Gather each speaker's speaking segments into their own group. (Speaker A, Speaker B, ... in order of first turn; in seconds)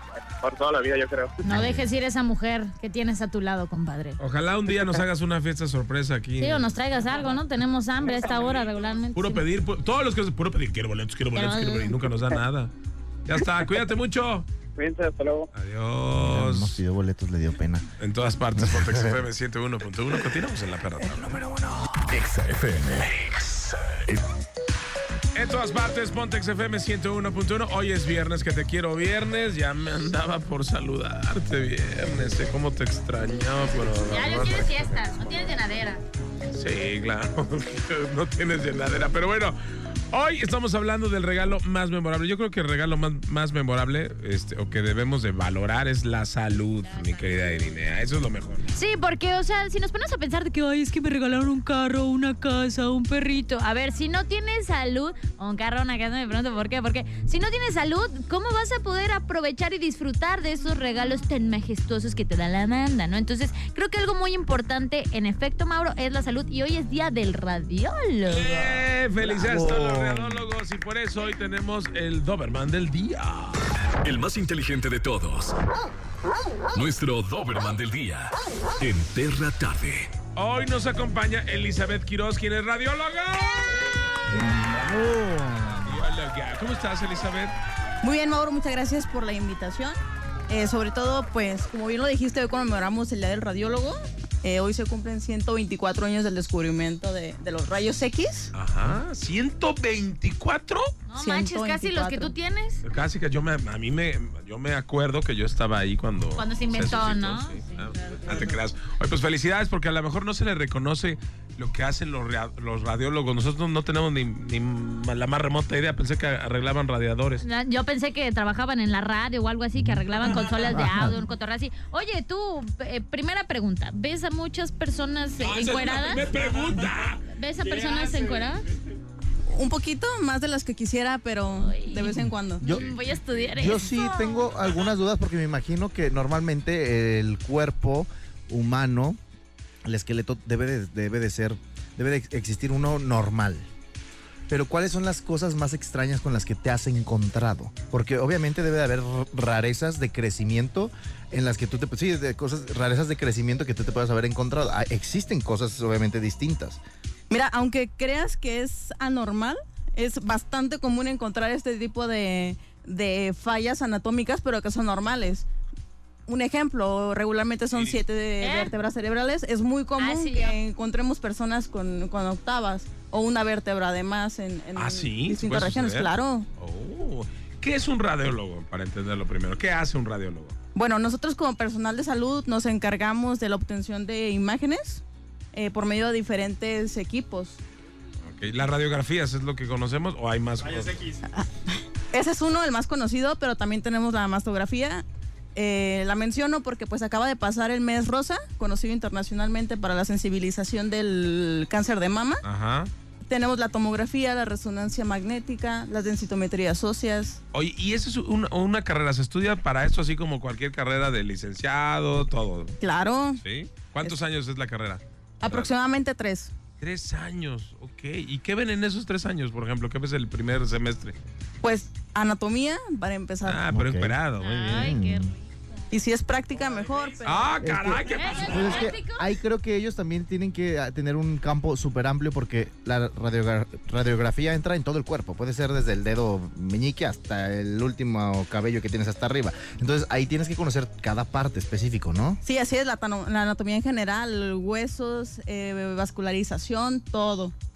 Speaker A: 0.2-1.4, 14.8-15.5
Speaker B: 1.4-4.2, 6.4-9.4, 11.3-12.0, 34.0-36.0, 46.9-47.6, 48.7-68.8, 101.1-102.8, 106.3-108.5, 117.4-126.3, 127.2-128.7, 131.6-134.5, 168.4-168.7, 170.0-170.6, 224.3-225.3, 228.1-229.4
Speaker C: 1.5-1.9, 16.3-17.9, 18.6-19.1, 69.2-70.4, 120.7-121.1, 133.6-139.2, 139.8-143.7, 144.5-156.8, 223.7-224.2, 224.7-225.3, 227.6-242.4
Speaker D: 4.2-6.7, 9.1-12.7, 13.3-14.5, 15.5-16.8, 18.0-21.5, 25.3-35.3, 36.5-39.6, 40.1-48.7, 68.3-73.6, 80.3-83.8, 85.8-87.5, 98.5-100.9, 102.8-117.5, 125.4-127.2, 132.8-133.5, 167.7-168.0, 174.8-180.6, 188.2-191.2, 202.4-202.9, 207.5-212.8, 213.4-215.7, 216.8-221.2, 223.4-225.0, 227.2-228.8
Speaker E: 22.1-24.2, 74.0-75.5, 76.7-80.1
Speaker F: 88.0-90.0, 90.5-98.5, 101.2-102.3, 129.5-132.7, 157.3-165.4, 166.3-176.5, 180.7-187.6, 191.3-195.0, 195.6-202.4, 203.3-207.4, 212.8-213.4, 215.4-216.5, 221.6-223.6, 225.9-227.5, 242.4-247.5